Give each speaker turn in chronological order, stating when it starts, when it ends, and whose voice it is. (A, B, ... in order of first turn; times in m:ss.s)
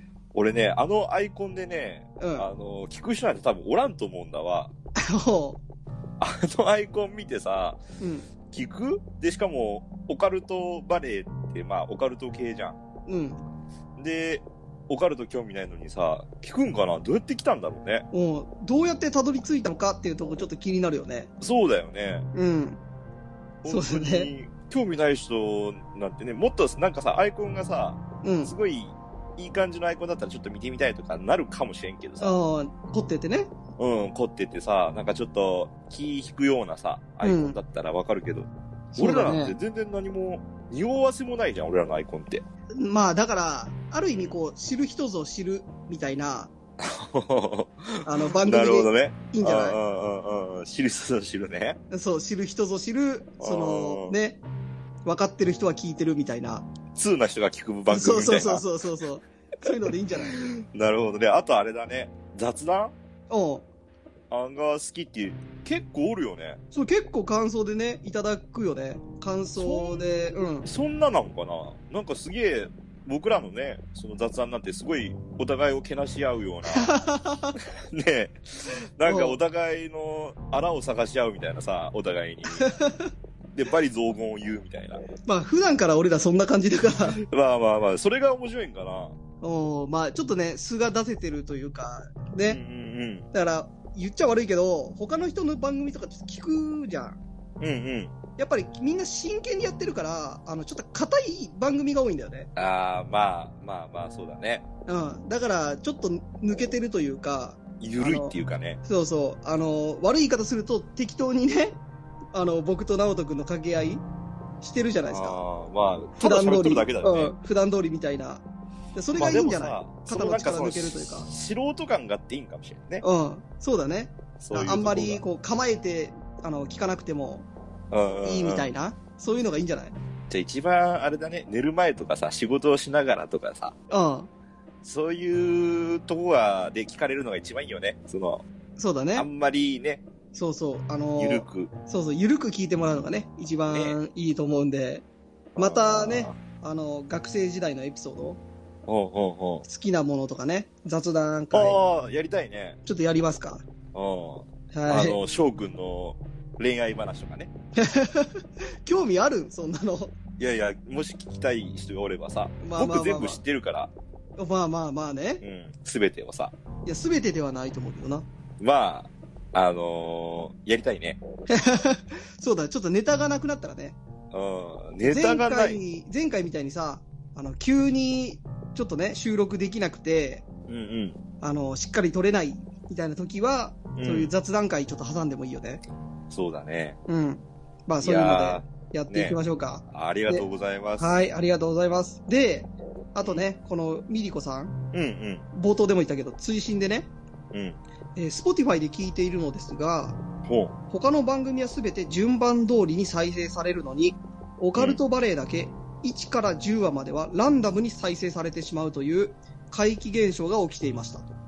0:00.3-0:04.7 A
0:02.2-0:02.5 B
0:05.0-0:05.6 B
0:06.2-0:07.8 A
0:08.0-0:08.3 B
0:08.5-0:12.8 A
0:13.1-0:13.4 B
0:14.0-0:18.1 A
0:18.1-0:21.3 B
0:21.4-0:22.3 A
0:22.3-0:22.8 B
0:23.6-0:32.4 A
0:23.7-0:24.3 B
0:28.2-0:28.5 B
0:32.2-0:33.5 B
0:33.8-0:42.4 A
0:37.2-0:37.6 B
0:38.9-0:39.6 B
0:42.8-0:46.5 B
0:46.8-0:51.8 A
0:48.0-0:49.8 B
0:51.9-0:54.4 B
0:53.4-0:54.2 A
0:55.0-0:56.7 B
0:57.0-0:58.6 A
0:57.9-1:00.4 B
1:00.5-1:02.9 A
1:03.3-1:03.7 B
1:04.3-1:06.6 A
1:06.7-1:10.7 B
1:09.6-1:16.9 A
1:16.7-1:17.6 B
1:17.8-1:22.7 A
1:19.0-1:19.4 B
1:22.5-1:23.1 B
1:23.5-1:25.0 A
1:25.3-1:27.2 B
1:27.2-1:29.2 A
1:29.4-1:32.6 B
1:32.5-1:33.3 A
1:33.3-1:37.2 B
1:37.6-1:38.2 A
1:38.4-1:42.5 B
1:42.6-1:44.6 A
1:44.9-1:51.8 B
1:47.8-1:48.8 A
1:52.3-1:54.0 B
1:54.6-1:55.4 B
1:55.1-1:57.3 A
1:56.2-1:58.4 B
1:58.9-2:01.3 B
1:59.2-2:03.0 A
2:03.0-2:07.5 B
2:04.4-2:05.2 A
2:07.9-2:08.7 A
2:08.2-2:10.0 B
2:10.3-2:13.7 A
2:13.9-2:14.3 B
2:14.8-2:18.4 A
2:18.8-2:19.3 B
2:19.2-2:20.0 A
2:20.3-2:25.0 B
2:21.2-2:21.7 A
2:23.7-2:24.0 A
2:25.6-2:26.4 A
2:25.6-2:28.4 B
2:28.9-2:29.7 A
2:29.7-2:31.8 B
2:31.5-2:32.8 A
2:32.9-2:33.6 B
2:33.9-2:37.5 A
2:34.7-2:35.2 B
2:37.8-2:40.1 B
2:40.4-2:43.9 A
2:42.6-2:43.4 B
2:44.4-2:45.4 B
2:45.4-2:46.5 A
2:46.9-2:48.3 B
2:48.6-2:51.2 A
2:51.5-2:54.0 B
2:54.3-2:55.8 A
2:55.0-3:00.4 B
3:00.7-3:01.2 A
3:01.4-3:05.8 B
3:04.0-3:04.3 A
3:06.3-3:07.0 A
3:07.1-3:10.5 B
3:08.0-3:09.4 A
3:09.9-3:11.2 A
3:11.0-3:14.8 B
3:14.9-3:15.5 A
3:15.5-3:17.1 B
3:17.5-3:17.8 A
3:18.2-3:20.2 B
3:20.4-3:20.8 A
3:20.9-3:31.3 B